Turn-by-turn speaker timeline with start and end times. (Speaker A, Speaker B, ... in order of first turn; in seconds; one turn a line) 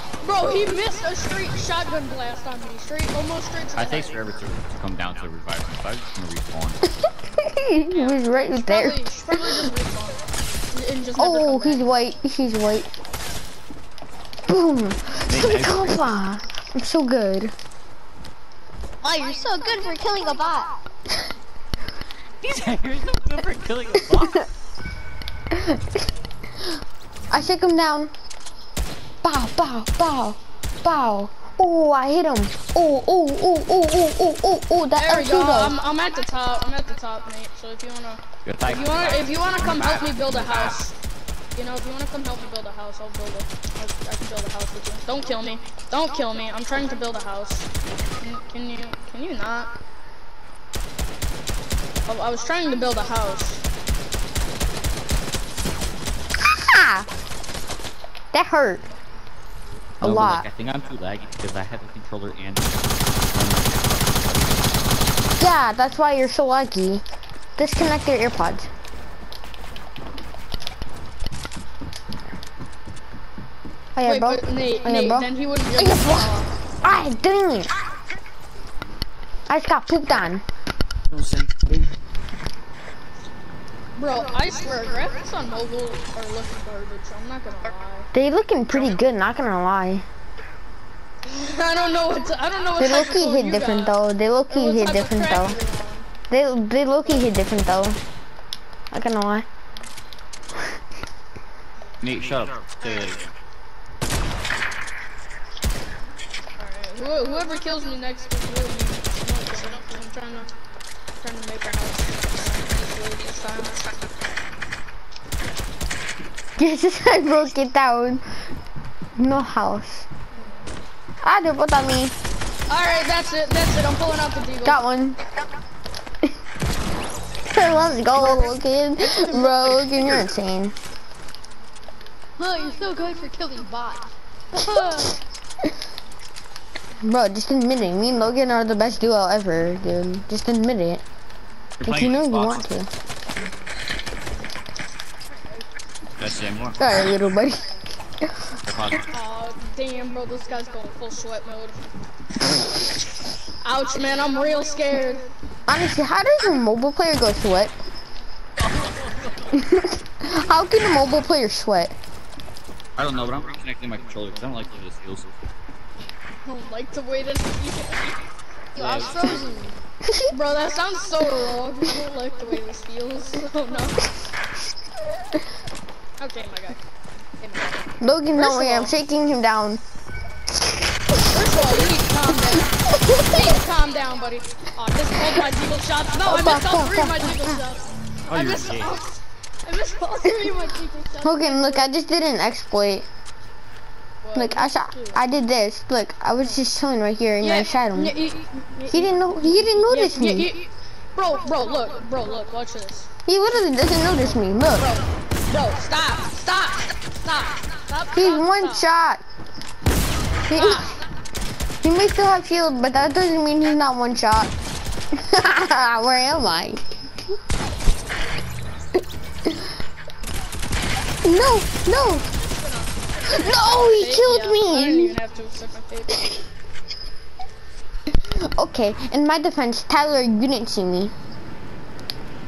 Speaker A: 0.2-4.2
Speaker B: 3.8-6.9
Speaker C: 7.4-9.7
Speaker A: 7.9-11.9
Speaker C: 11.2-12.9
Speaker C: 14.5-17.5
Speaker B: 15.3-16.2
Speaker D: 19.0-20.8
Speaker B: 22.4-24.5
Speaker C: 25.5-26.1
Speaker C: 27.3-28.1
Speaker C: 29.2-35.8
Speaker A: 35.0-40.9
Speaker B: 38.5-40.8
Speaker A: 41.5-47.7
Speaker A: 48.2-49.7
Speaker A: 52.1-53.6
Speaker C: 56.4-57.1
Speaker C: 58.3-58.8
Speaker C: 60.0-60.5
Speaker B: 60.0-64.8
Speaker C: 65.4-67.0
Speaker C: 67.6-68.7
Speaker C: 74.0-77.7
Speaker A: 74.0-76.5
Speaker C: 79.5-80.4
Speaker B: 81.1-81.9
Speaker A: 84.0-88.1
Speaker C: 88.1-90.1
Speaker A: 91.3-94.0
Speaker C: 92.8-95.6
Speaker A: 94.5-96.1
Speaker C: 96.3-98.0
Speaker C: 98.9-99.5
Speaker B: 102.0-103.3
Speaker A: 106.6-110.5
Speaker A: 111.2-114.1
Speaker C: 116.6-118.4
Speaker C: 119.2-120.1
Speaker C: 121.2-122.2
Speaker A: 122.7-124.8
Speaker C: 124.7-125.2
Speaker C: 127.5-130.8
Speaker D: 128.2-128.6
Speaker D: 129.1-130.0
Speaker D: 132.4-135.2
Speaker C: 137.0-141.0
Speaker B: 141.8-142.7
Speaker C: 141.8-142.9
Speaker B: 146.2-147.1
Speaker C: 146.8-148.3
Speaker B: 148.7-149.1
Speaker A: 149.1-151.9
Speaker A: 153.6-155.3
Speaker C: 155.7-157.7
Speaker B: 158.8-159.3
Speaker C: 159.6-161.9
Speaker B: 163.0-165.3
Speaker A: 166.4-168.2
Speaker D: 168.8-169.8
Speaker B: 168.8-169.4
Speaker C: 170.1-170.3
Speaker A: 170.3-174.0
Speaker A: 176.2-176.8
Speaker A: 177.4-178.9
Speaker C: 178.0-179.8
Speaker C: 181.1-181.9
Speaker A: 181.3-191.9
Speaker C: 182.9-183.5
Speaker C: 186.2-187.6
Speaker B: 188.3-189.0
Speaker C: 191.2-193.1
Speaker A: 194.2-195.2
Speaker C: 194.3-198.2
Speaker A: 197.4-199.2
Speaker C: 198.9-200.5
Speaker A: 199.8-203.1
Speaker C: 203.3-204.9
Speaker A: 204.8-208.9
Speaker C: 208.1-209.2
Speaker C: 210.5-211.0
Speaker A: 210.5-211.1
Speaker C: 211.8-214.5
Speaker C: 215.1-216.9
Speaker C: 221.2-222.3
Speaker A: 222.3-226.4
Speaker C: 223.3-225.2
Speaker C: 228.1-231.1